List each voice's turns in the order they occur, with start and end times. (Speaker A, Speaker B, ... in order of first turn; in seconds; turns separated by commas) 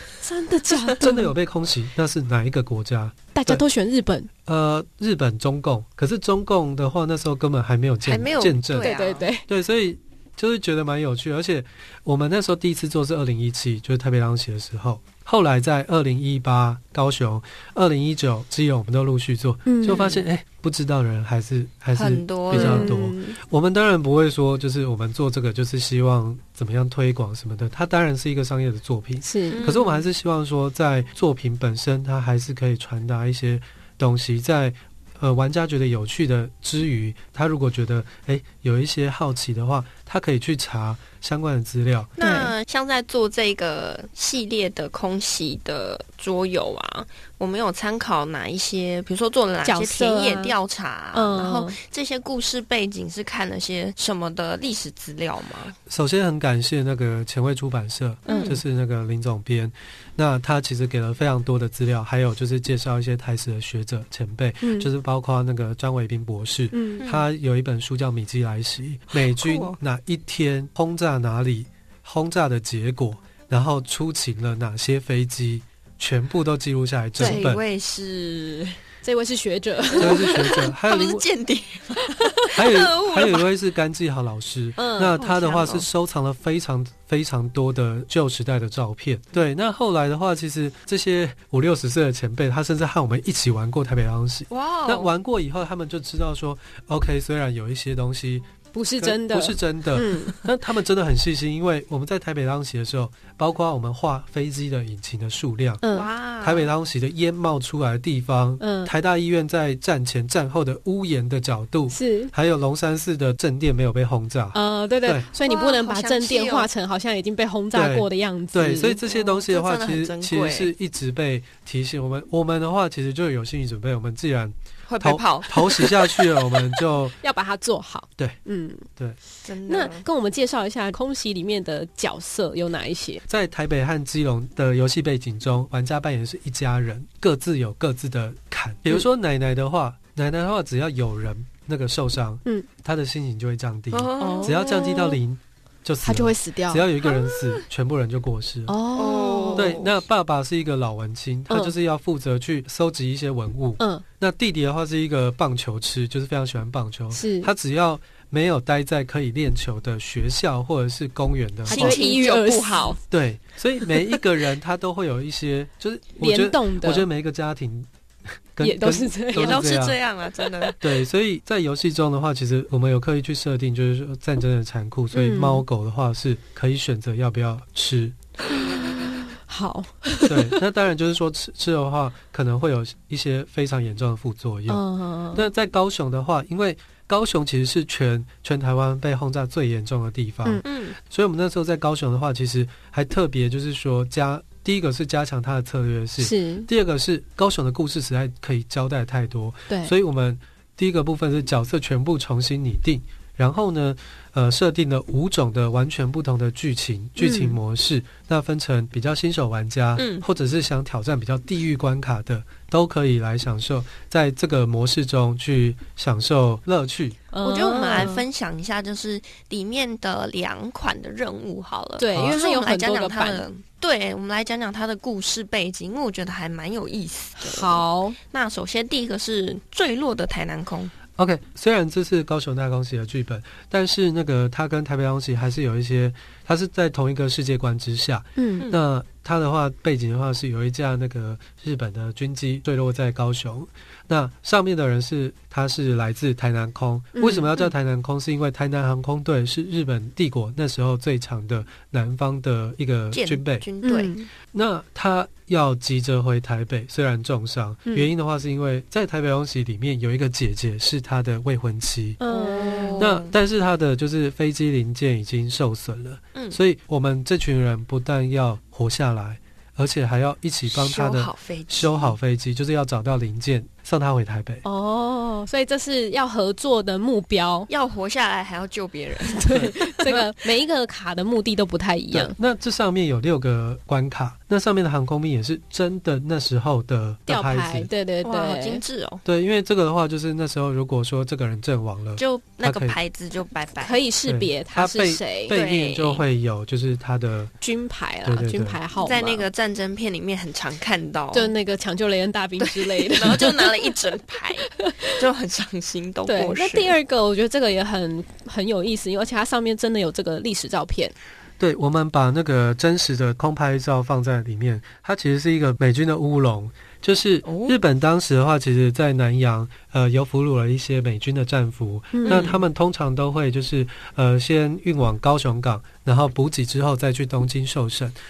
Speaker A: 0.2-1.3, Speaker B: 1.0-3.6, Speaker A: 3.3-4.3, Speaker B: 4.4-42.1, Speaker C: 8.0-9.3, Speaker A: 8.7-9.4, Speaker A: 19.6-20.1, Speaker C: 19.9-20.2, Speaker C: 21.9-22.9, Speaker A: 22.5-23.4, Speaker A: 29.2-29.6, Speaker C: 29.5-30.1, Speaker C: 42.2-55.8, Speaker A: 42.2-42.5, Speaker A: 49.6-50.6, Speaker A: 51.1-51.8, Speaker B: 55.9-77.6, Speaker C: 58.3-58.6, Speaker A: 58.3-58.6, Speaker A: 64.6-64.9, Speaker A: 66.7-67.1, Speaker C: 67.0-67.2, Speaker C: 69.1-69.8, Speaker A: 77.2-77.5, Speaker C: 77.2-78.8, Speaker A: 79.0-80.5, Speaker C: 80.0-83.5, Speaker B: 80.0-81.2, Speaker B: 82.5-98.5, Speaker A: 84.8-85.2, Speaker C: 85.0-85.9, Speaker C: 94.5-95.1, Speaker A: 98.7-100.5, Speaker B: 99.0-105.8, Speaker A: 105.8-106.1, Speaker C: 105.9-106.7, Speaker B: 106.4-115.3, Speaker A: 108.6-108.9, Speaker A: 111.9-112.3, Speaker A: 114.5-119.0, Speaker C: 115.5-116.7, Speaker B: 117.7-127.2, Speaker C: 119.0-120.7, Speaker C: 124.9-126.6, Speaker A: 127.2-128.9, Speaker C: 129.4-130.0, Speaker A: 129.6-133.2, Speaker B: 133.3-148.8, Speaker C: 143.9-145.2, Speaker A: 144.2-145.1, Speaker A: 146.0-146.8, Speaker C: 147.0-147.6, Speaker A: 148.7-149.8, Speaker C: 148.9-150.0, Speaker B: 149.6-162.0, Speaker A: 151.5-151.7, Speaker A: 153.8-154.0, Speaker A: 157.1-157.5, Speaker C: 161.7-163.0, Speaker A: 161.7-163.0, Speaker B: 163.1-167.9, Speaker A: 166.2-167.1, Speaker B: 168.5-169.9, Speaker A: 168.6-169.8, Speaker C: 169.3-170.8, Speaker B: 170.8-178.2, Speaker A: 175.1-175.7, Speaker A: 178.9-180.6, Speaker B: 180.2-217.2, Speaker A: 184.7-185.4, Speaker C: 190.6-190.9, Speaker A: 196.2-196.7, Speaker A: 199.7-199.9, Speaker A: 207.2-207.6, Speaker C: 210.0-210.2, Speaker A: 217.3-218.2, Speaker C: 217.4-230.9, Speaker A: 222.0-223.4, Speaker B: 222.1-222.4, Speaker A: 227.4-228.2, Speaker B: 231.2-253.7, Speaker A: 238.4-238.7, Speaker A: 247.1-247.5, Speaker C: 253.1-254.2, Speaker A: 253.8-254.3, Speaker B: 254.5-262.2, Speaker A: 262.2-263.1, Speaker C: 262.3-263.4, Speaker B: 263.0-274.6, Speaker C: 270.7-272.1, Speaker A: 274.6-277.7, Speaker C: 277.7-280.2, Speaker A: 279.2-282.3, Speaker B: 279.5-280.1, Speaker B: 282.1-287.9, Speaker A: 287.3-288.8, Speaker C: 288.2-289.2, Speaker B: 289.2-293.0, Speaker C: 292.2-294.0, Speaker A: 293.8-295.6, Speaker B: 294.2-297.5, Speaker C: 295.5-296.2, Speaker A: 297.6-299.5, Speaker B: 298.2-298.8, Speaker C: 298.9-301.5, Speaker A: 301.3-303.7, Speaker C: 302.6-306.9, Speaker A: 304.8-305.2, Speaker A: 306.2-311.1, Speaker B: 311.6-328.1, Speaker C: 317.4-317.8, Speaker A: 322.1-322.6, Speaker C: 322.2-322.6